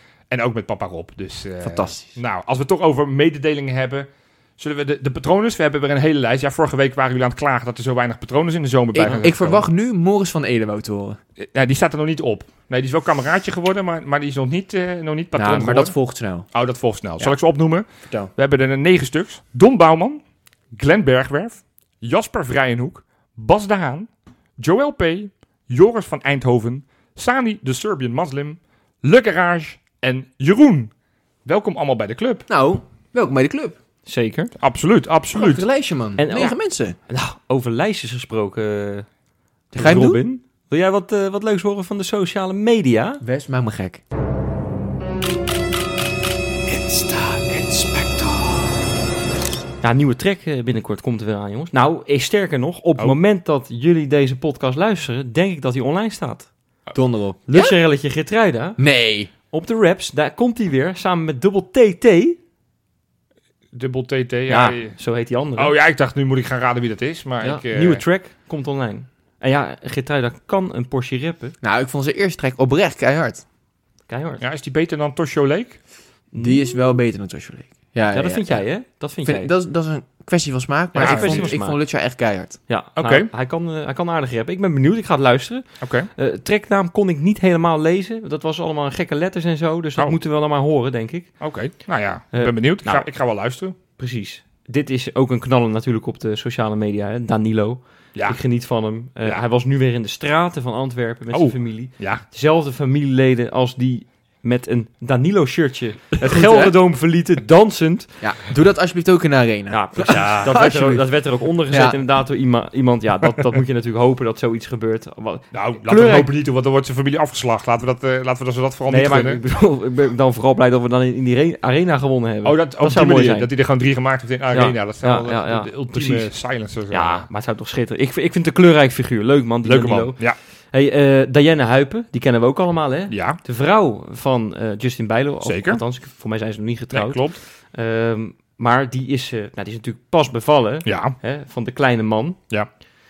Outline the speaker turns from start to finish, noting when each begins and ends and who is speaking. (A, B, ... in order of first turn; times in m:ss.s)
0:00.3-0:09.6 A
0:01.6-0:02.1 B
0:08.9-0:11.2 B
0:11.4-0:15.9 A
0:15.3-0:16.4 B
0:16.5-0:20.2 A
0:20.7-0:30.9 A
0:31.4-0:32.5 A
0:32.5-0:33.8 B
0:34.1-0:34.5 C
0:34.6-0:35.6 A
0:35.3-0:37.0 B
0:36.2-0:39.1 C
0:39.7-0:40.2 B
0:39.7-0:43.2 C
0:43.2-0:44.0 B
0:46.7-0:48.7 B
0:49.8-0:56.5 C
0:56.9-0:57.8 B
0:57.5-0:58.8 C
0:58.8-0:59.3 B
0:59.5-1:02.4 C
1:03.7-1:04.9 A
1:04.5-1:05.7 C
1:05.6-1:08.0 A
1:07.4-1:11.5 C
1:11.6-1:13.4 B
1:14.1-1:14.4 C
1:14.4-1:15.8 A
1:16.3-1:16.7 C
1:16.3-1:18.6 B
1:18.1-1:19.5 C
1:19.2-1:22.6 B
1:20.9-1:21.8 C
1:21.0-1:21.5 A
1:22.7-1:31.3 C
1:23.0-1:23.3 A
1:25.8-1:26.1 A
1:31.4-1:33.8 A
1:32.3-1:33.1 C
1:34.0-1:48.1 C
1:41.3-1:42.2 A
1:46.4-1:46.7 B
1:48.2-1:51.0 B
1:49.7-1:56.3 C
1:50.1-1:50.5 A
1:51.7-1:52.0 B
1:55.5-1:59.4 A
1:58.9-2:03.5 C
2:02.4-2:07.2 A
2:04.5-2:06.3 C
2:06.9-2:22.4 C
2:09.6-2:10.4 A
2:13.1-2:13.4 A
2:15.4-2:15.8 A
2:16.9-2:17.4 A
2:20.8-2:21.2 A